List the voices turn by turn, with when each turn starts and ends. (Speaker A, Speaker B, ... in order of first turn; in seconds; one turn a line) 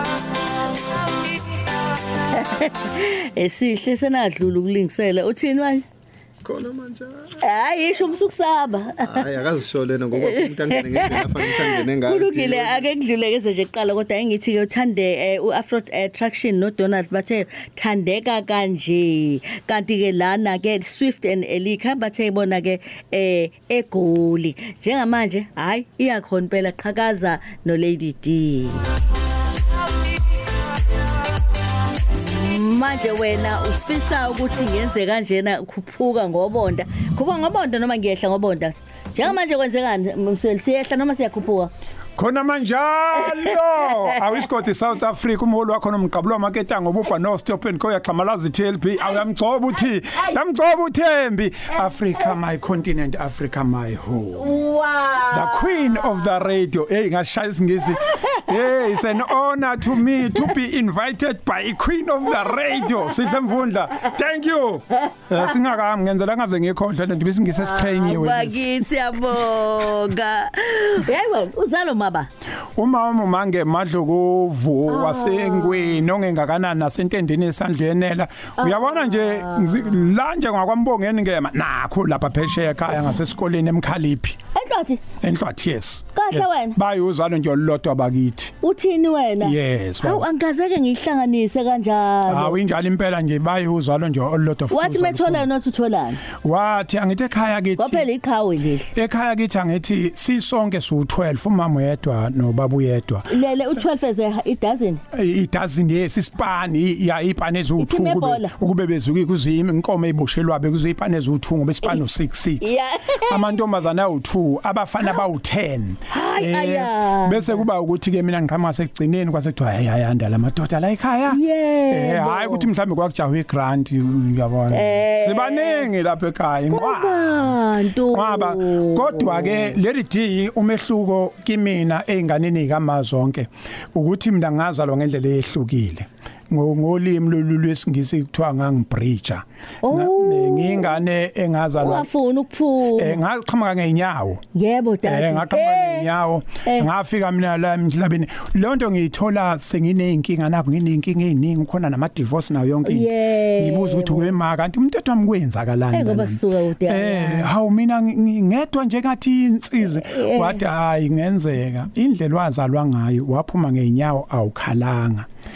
Speaker A: 2.3-5.8
Speaker B: 6.4-7.4
Speaker A: 7.4-9.2
Speaker B: 9.0-12.9
Speaker A: 10.2-28.9
Speaker A: 32.2-41.7
Speaker C: 42.2-54.5
Speaker A: 50.0-50.4
Speaker A: 51.8-52.3
Speaker A: 54.3-56.3
Speaker C: 55.3-68.7
Speaker A: 58.1-59.2
Speaker A: 62.7-63.1
Speaker A: 67.5-72.3
Speaker C: 72.8-84.4
Speaker A: 74.9-76.0
Speaker A: 78.6-80.1
Speaker A: 84.5-85.0
Speaker C: 85.2-88.5
Speaker A: 86.1-86.8
Speaker A: 88.6-92.6
Speaker C: 89.4-90.3
Speaker C: 92.2-95.5
Speaker A: 94.7-96.2
Speaker C: 96.3-98.1
Speaker A: 97.8-98.9
Speaker C: 98.9-103.3
Speaker A: 103.3-105.0
Speaker C: 105.1-127.6
Speaker A: 107.8-108.5
Speaker A: 112.6-113.5
Speaker A: 116.1-117.6
Speaker A: 121.3-122.7
Speaker A: 124.7-125.9
Speaker A: 126.7-129.8
Speaker C: 128.1-142.1
Speaker A: 139.8-141.0
Speaker A: 141.8-143.2
Speaker C: 143.0-144.4
Speaker A: 144.5-146.1
Speaker C: 145.0-165.3
Speaker A: 146.6-146.9
Speaker A: 152.8-154.3
Speaker A: 155.9-157.5
Speaker A: 159.9-160.6